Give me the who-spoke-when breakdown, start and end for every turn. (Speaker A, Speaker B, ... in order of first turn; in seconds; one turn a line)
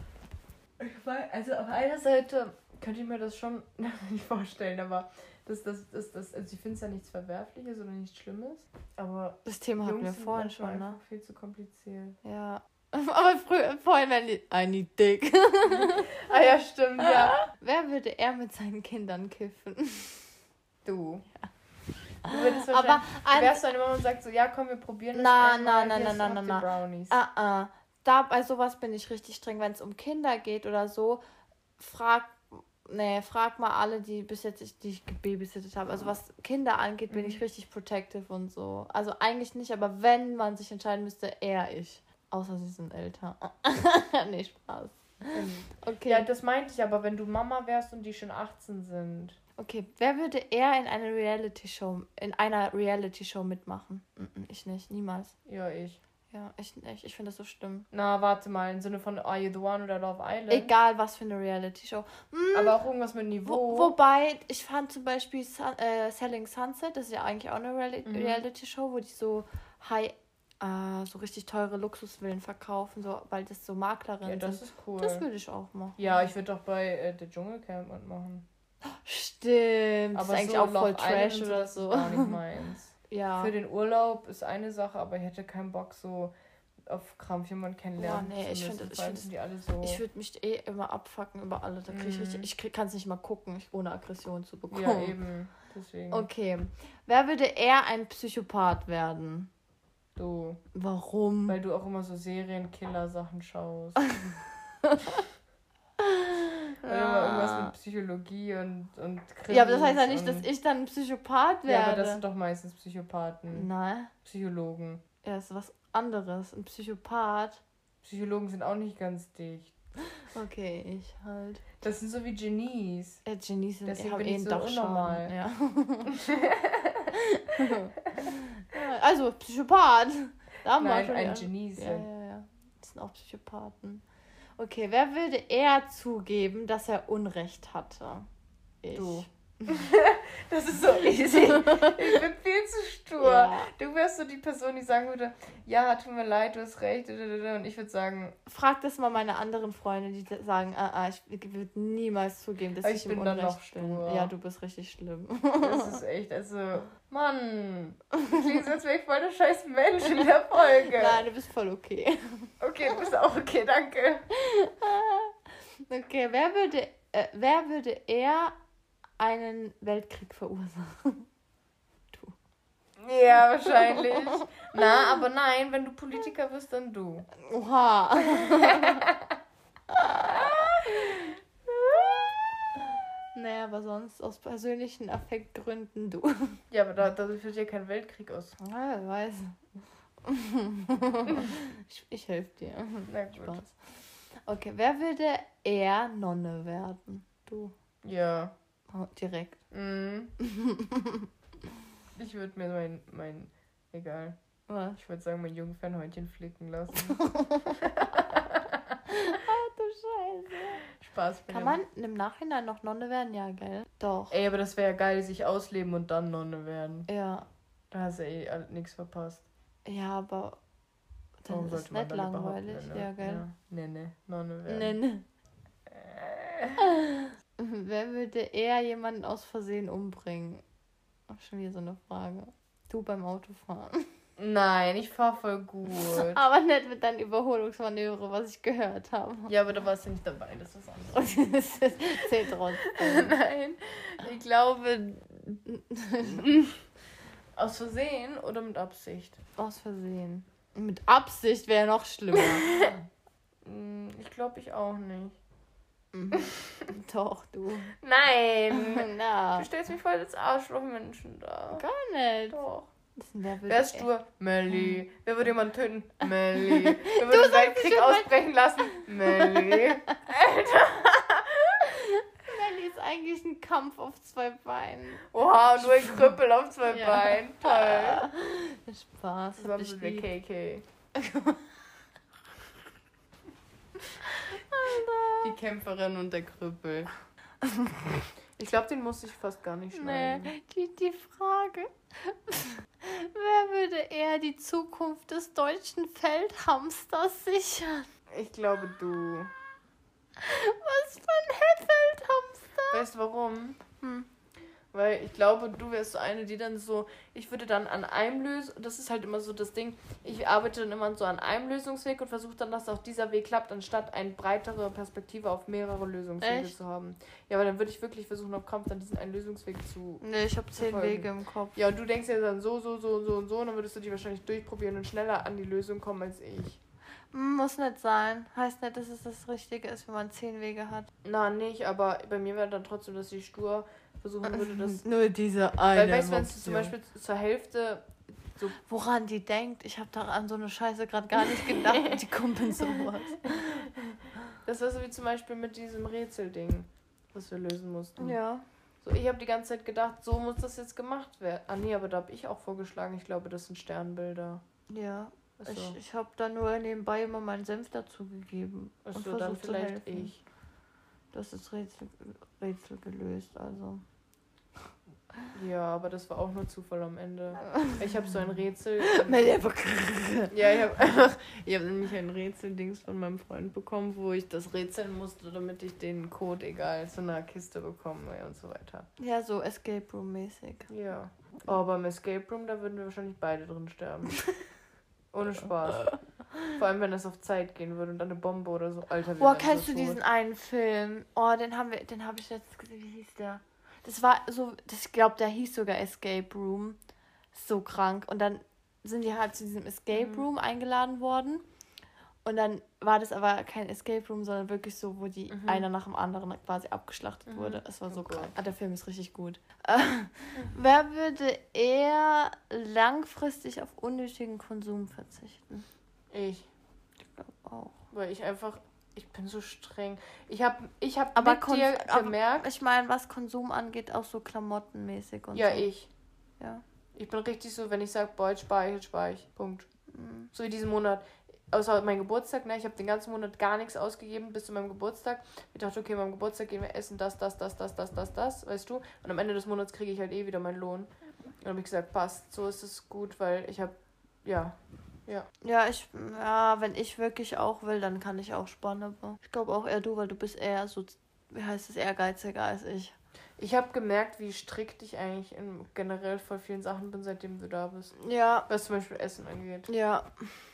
Speaker A: 0.8-12.2
Speaker B: 9.4-11.0
Speaker B: 12.2-16.2
Speaker A: 15.7-17.4
Speaker B: 17.0-20.3
Speaker A: 20.8-21.2
Speaker B: 22.2-23.6
Speaker A: 22.3-27.2
Speaker B: 25.1-31.2
Speaker B: 31.8-46.2
Speaker A: 37.1-37.4
Speaker A: 45.3-49.4
Speaker B: 49.6-55.3
Speaker A: 55.5-56.0
Speaker B: 56.3-57.9
Speaker A: 57.9-60.7
Speaker B: 60.5-62.8
Speaker A: 62.5-63.9
Speaker B: 63.5-76.0
Speaker A: 68.0-68.4
Speaker A: 74.2-75.2
Speaker A: 76.0-78.5
Speaker B: 79.0-82.4
Speaker A: 80.1-86.3
Speaker B: 83.1-83.5
Speaker A: 86.9-90.0
Speaker B: 88.0-89.3
Speaker B: 89.8-95.2
Speaker A: 91.9-92.5
Speaker A: 94.7-96.3
Speaker B: 96.1-99.5
Speaker A: 100.2-100.6
Speaker B: 100.7-101.6
Speaker A: 101.5-104.0
Speaker B: 104.8-105.2
Speaker B: 106.0-107.7
Speaker A: 106.8-110.5
Speaker B: 109.5-112.2
Speaker A: 111.7-113.7
Speaker B: 113.5-114.1
Speaker A: 114.2-115.0
Speaker B: 115.2-117.6
Speaker A: 118.0-119.7
Speaker B: 120.3-121.7
Speaker A: 121.8-123.2
Speaker B: 123.2-126.2
Speaker A: 123.8-125.3
Speaker A: 126.1-127.2
Speaker B: 127.2-134.0
Speaker A: 130.8-132.1
Speaker B: 134.6-138.3
Speaker B: 138.8-139.8
Speaker A: 138.9-148.4
Speaker B: 141.5-142.2
Speaker B: 143.2-143.7
Speaker B: 148.5-156.0
Speaker A: 152.8-154.3
Speaker A: 155.6-161.2
Speaker B: 160.9-162.5
Speaker A: 162.6-164.2
Speaker B: 164.3-168.5
Speaker B: 169.2-171.3
Speaker A: 173.0-177.3
Speaker B: 173.7-174.5
Speaker B: 177.4-179.1
Speaker A: 178.3-179.3
Speaker B: 179.9-182.2
Speaker A: 180.3-181.0
Speaker B: 183.3-186.6
Speaker A: 186.7-188.6
Speaker B: 188.6-189.6
Speaker B: 190.2-193.8
Speaker A: 193.1-193.7
Speaker B: 194.4-197.7
Speaker A: 198.0-198.5
Speaker B: 198.9-199.6
Speaker A: 199.7-200.3
Speaker B: 200.4-201.3
Speaker A: 202.2-204.4
Speaker B: 204.7-205.0
Speaker A: 205.0-209.0
Speaker B: 207.0-208.1
Speaker B: 209.1-210.8
Speaker A: 210.9-211.8
Speaker B: 211.5-214.3
Speaker A: 214.3-217.1
Speaker B: 217.1-217.5
Speaker A: 217.9-219.4
Speaker B: 219.8-220.6
Speaker B: 221.4-223.4
Speaker A: 221.5-225.0
Speaker B: 224.7-225.2
Speaker A: 225.9-226.8
Speaker B: 226.8-230.6
Speaker B: 231.3-234.1
Speaker A: 234.4-236.4
Speaker B: 235.9-239.5
Speaker A: 239.5-241.4
Speaker B: 241.1-243.3
Speaker A: 242.2-245.6
Speaker B: 245.6-246.5
Speaker A: 246.2-246.8
Speaker A: 247.6-249.4
Speaker B: 249.6-253.0
Speaker A: 252.3-253.0
Speaker A: 253.6-255.3
Speaker B: 256.1-257.9
Speaker A: 256.3-256.9
Speaker A: 258.0-261.8
Speaker B: 258.7-259.7
Speaker B: 261.7-262.6
Speaker A: 262.5-262.9
Speaker B: 263.2-264.1
Speaker A: 263.7-272.1
Speaker B: 266.6-270.2
Speaker B: 271.9-276.3
Speaker A: 275.3-278.3
Speaker B: 276.9-280.3
Speaker A: 279.6-280.8
Speaker B: 281.1-281.7
Speaker B: 284.3-285.5
Speaker A: 285.4-287.1
Speaker B: 287.6-288.2
Speaker A: 288.6-290.5
Speaker B: 289.9-298.1
Speaker A: 298.3-299.5
Speaker B: 300.4-303.1
Speaker A: 302.9-303.8
Speaker B: 304.0-304.3
Speaker A: 304.9-320.2
Speaker B: 316.4-316.7
Speaker B: 320.2-321.8
Speaker A: 320.8-326.8
Speaker B: 327.3-331.1
Speaker A: 331.2-335.0
Speaker B: 334.4-336.9
Speaker A: 335.9-338.8
Speaker B: 338.9-343.9
Speaker A: 341.4-342.3
Speaker A: 342.8-344.0
Speaker A: 344.6-348.4
Speaker B: 348.2-348.6
Speaker A: 349.0-354.6
Speaker B: 354.9-360.3
Speaker A: 355.6-356.0
Speaker A: 359.0-360.4
Speaker B: 361.3-364.0
Speaker A: 365.5-369.5
Speaker B: 367.6-368.0
Speaker B: 369.0-370.7
Speaker A: 370.5-379.1
Speaker B: 379.2-380.9
Speaker A: 380.9-384.4
Speaker A: 385.3-386.1
Speaker A: 386.7-390.2
Speaker B: 389.4-397.0
Speaker B: 397.5-401.6
Speaker A: 400.1-400.4
Speaker B: 402.4-415.8
Speaker A: 405.5-405.9
Speaker A: 407.5-408.5
Speaker A: 416.3-416.7
Speaker B: 417.3-417.9
Speaker A: 418.1-422.6
Speaker B: 421.3-425.9
Speaker A: 425.5-426.1
Speaker A: 427.1-429.9
Speaker B: 430.1-430.5
Speaker A: 430.5-441.1
Speaker A: 441.6-445.5
Speaker B: 445.6-453.1
Speaker A: 453.6-458.1
Speaker B: 458.2-458.7
Speaker A: 458.7-459.9
Speaker B: 459.9-460.3